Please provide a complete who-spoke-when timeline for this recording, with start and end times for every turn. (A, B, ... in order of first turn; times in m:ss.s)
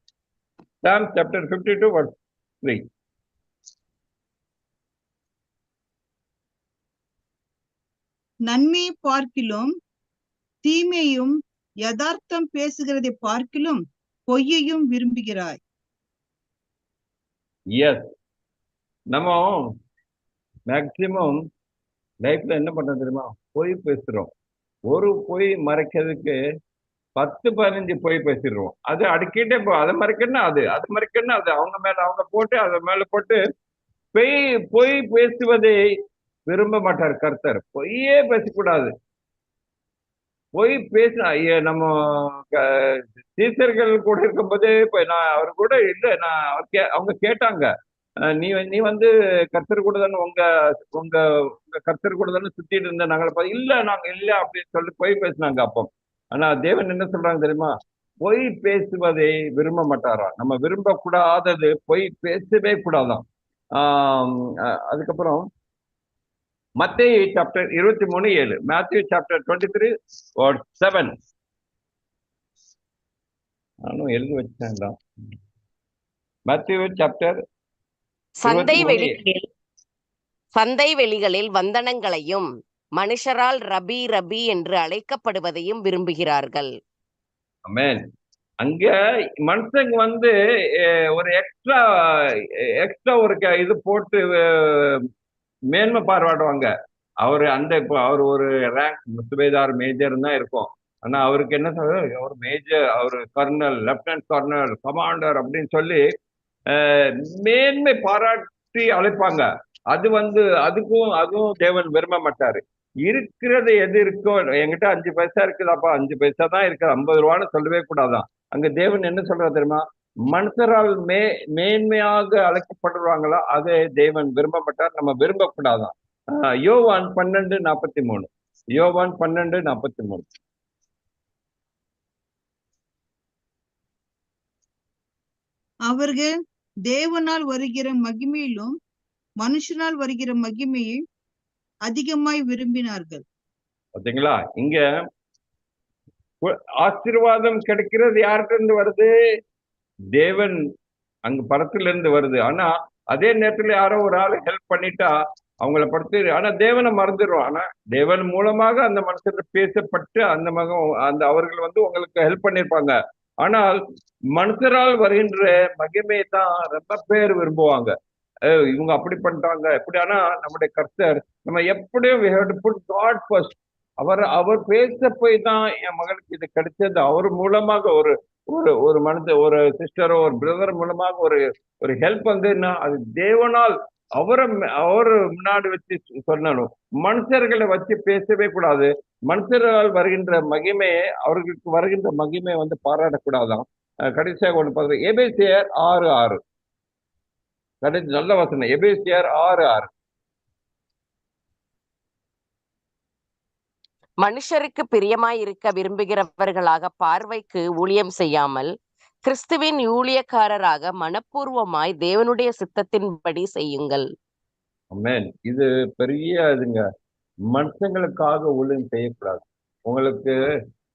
0:00.8-0:02.8 A
0:08.5-0:09.7 B
0:10.6-0:15.6 B
0:17.8-0:18.1 A
0:19.1-0:19.7 A
0:20.7-0:21.4 A
0:22.2-0:24.3 A
0:24.9-0:26.4 A
0:27.2-0:33.4 A
0:34.1-0:35.8 A
0:36.5-0:38.9 A
0:40.6-0:47.7 A
0:48.3-1:05.5 A
1:06.8-1:11.2 A
1:13.8-1:15.0 A
1:16.5-1:17.4 A
1:18.4-1:19.4 C
1:18.4-1:19.1 A
1:20.6-1:22.5 C
1:23.0-1:26.7 C
1:27.6-1:28.0 A
1:28.6-1:35.0 A
1:35.7-1:36.7 A
1:37.2-1:46.0 A
1:46.7-2:10.3 A
2:15.9-2:16.3 B
2:16.9-2:18.7 B
2:19.4-2:21.0 B
2:21.9-2:23.2 B
2:24.0-2:24.8 A
2:26.4-2:29.1 A
2:30.2-2:30.6 A
2:31.3-2:35.1 A
2:35.6-2:43.8 A
2:44.4-2:47.9 A
2:48.5-3:16.4 A
3:17.8-3:19.9 A
3:24.2-3:28.7 C
3:29.2-3:34.1 C
3:34.9-3:36.8 A
3:37.5-3:40.4 A